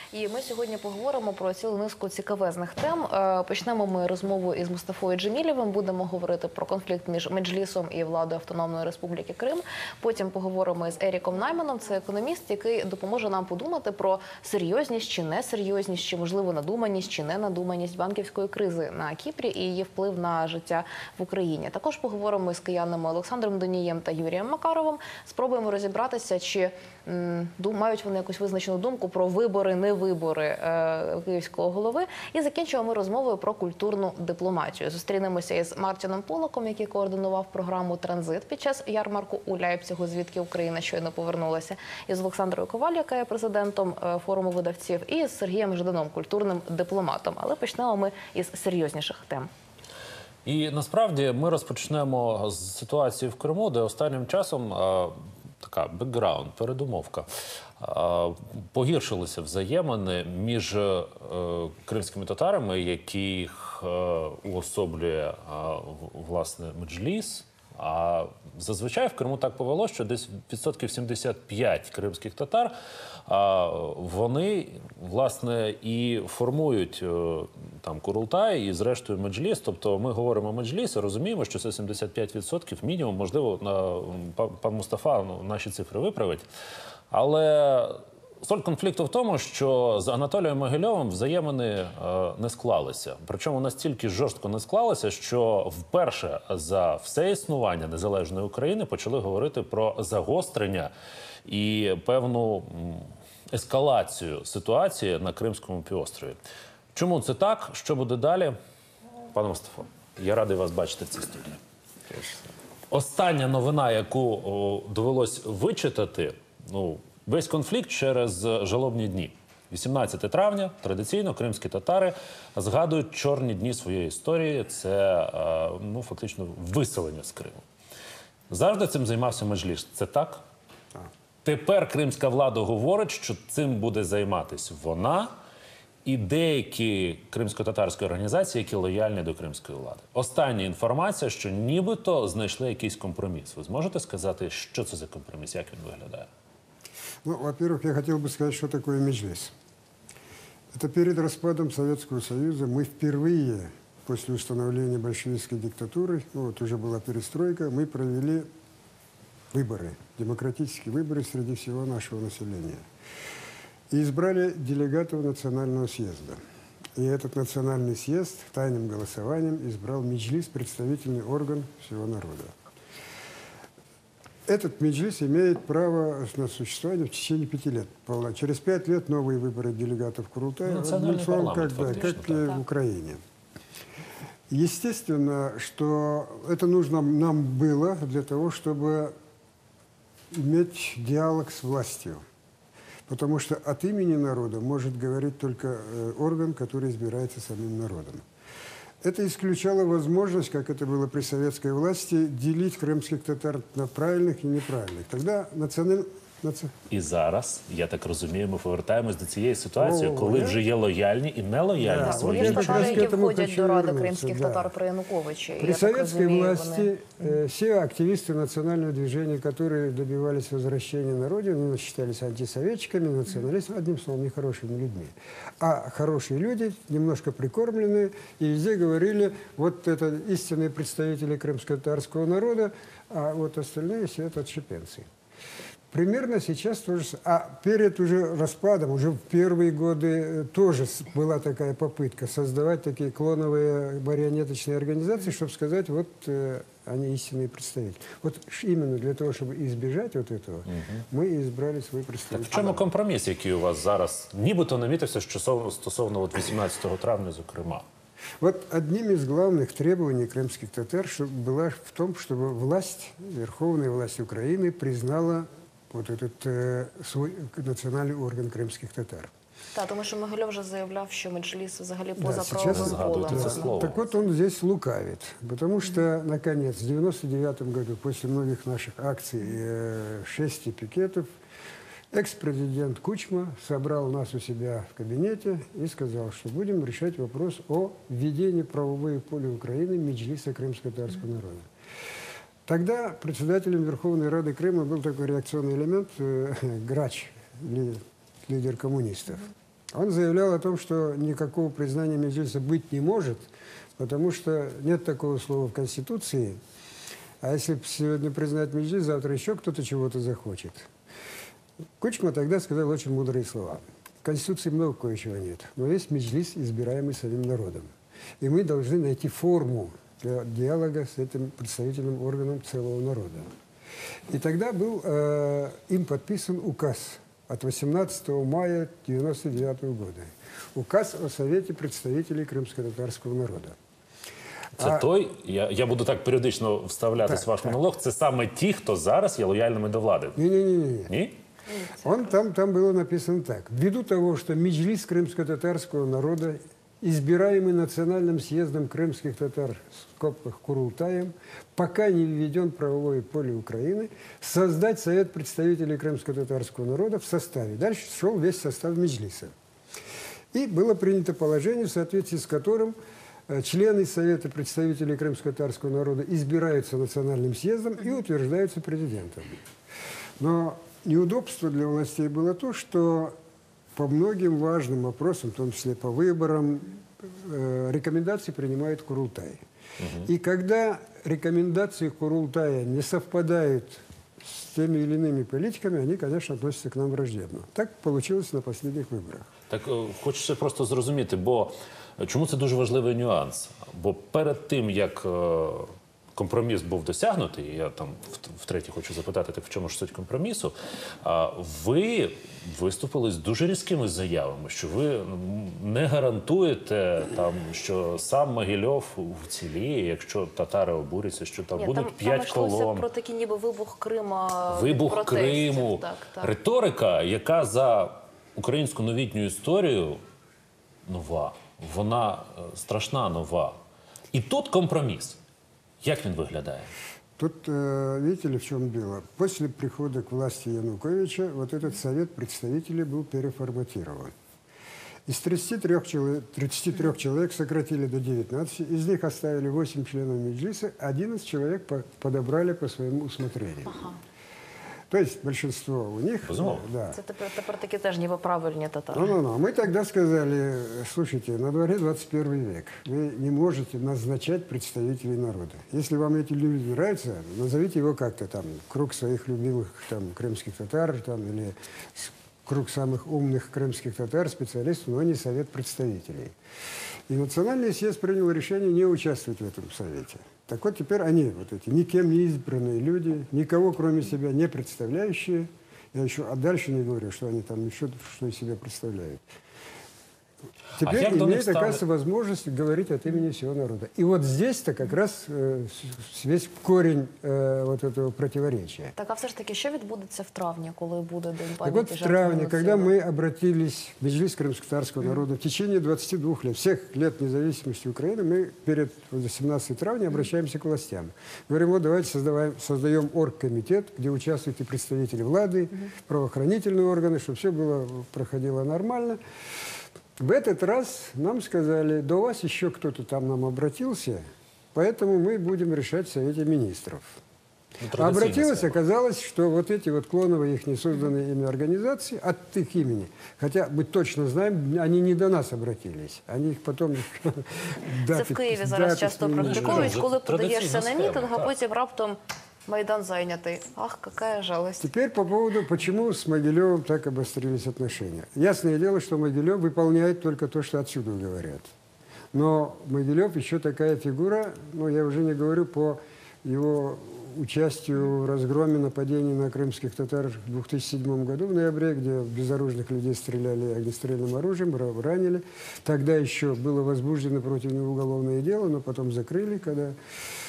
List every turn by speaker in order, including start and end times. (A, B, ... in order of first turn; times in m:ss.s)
0:00.1-0:49.5 A
0:50.4-0:57.3 B
0:57.8-1:12.7 B
1:13.3-1:26.4 B
1:27.1-1:40.9 B
1:41.4-1:46.4 B
1:46.9-1:48.6 B
1:49.3-1:51.6 B
1:52.9-2:07.6 B
2:08.5-2:10.4 B
2:11.4-2:15.3 B
2:16.0-2:26.3 B
2:27.2-2:29.5 C
2:30.7-2:38.5 C
2:39.5-2:42.8 C
2:43.9-2:46.4 C
2:46.9-2:52.6 C
2:54.5-3:03.2 C
3:00.6-3:02.5 B
3:04.5-3:09.1 C
3:10.3-3:12.2 C
3:13.1-3:18.2 C
3:19.0-3:26.7 C
3:26.9-3:33.1 B
3:29.8-3:30.6 C
3:31.8-3:34.7 C
3:32.0-3:36.9 A
3:35.6-3:55.1 C
3:55.9-4:12.9 C
4:10.7-4:11.0 B
4:12.3-4:17.8 B
4:18.4-4:29.3 C
4:29.7-4:33.7 A
4:32.2-4:41.3 C
4:32.6-4:34.0 B
4:42.1-4:51.7 C
4:52.6-5:06.6 C
5:07.4-5:10.9 C
5:12.0-5:23.5 C
5:24.3-5:33.8 C
5:34.8-5:40.4 B
5:34.8-5:35.1 C
5:37.2-5:37.8 C
5:40.4-5:41.1 C
5:41.1-5:41.4 B
5:41.7-5:42.2 A
5:42.0-5:59.5 C
6:00.5-6:03.0 C
6:03.5-6:09.6 C
6:10.4-6:13.4 C
6:13.9-6:19.6 C
6:20.0-6:20.3 B
6:20.2-6:29.5 C
6:29.7-6:53.0 B
6:51.8-6:56.5 A
6:54.7-7:00.2 B
7:01.0-7:03.8 B
7:04.3-7:05.4 B
7:06.0-7:06.9 B
7:07.4-7:14.3 C
7:15.2-7:24.0 C
7:23.9-7:24.2 A
7:25.1-7:27.2 C
7:26.5-7:26.8 B
7:27.1-7:29.3 A
7:29.1-7:46.5 C
7:47.3-7:59.4 C
8:01.0-8:02.0 B
8:01.0-8:09.1 C
8:09.2-8:13.1 A
8:11.8-8:29.4 C
8:30.4-8:34.4 C
8:34.9-8:37.4 C
8:38.0-8:39.0 B
8:38.1-8:50.2 C
8:48.3-8:55.1 A
8:49.6-8:51.7 B
8:55.0-9:01.9 C
9:02.5-9:20.2 C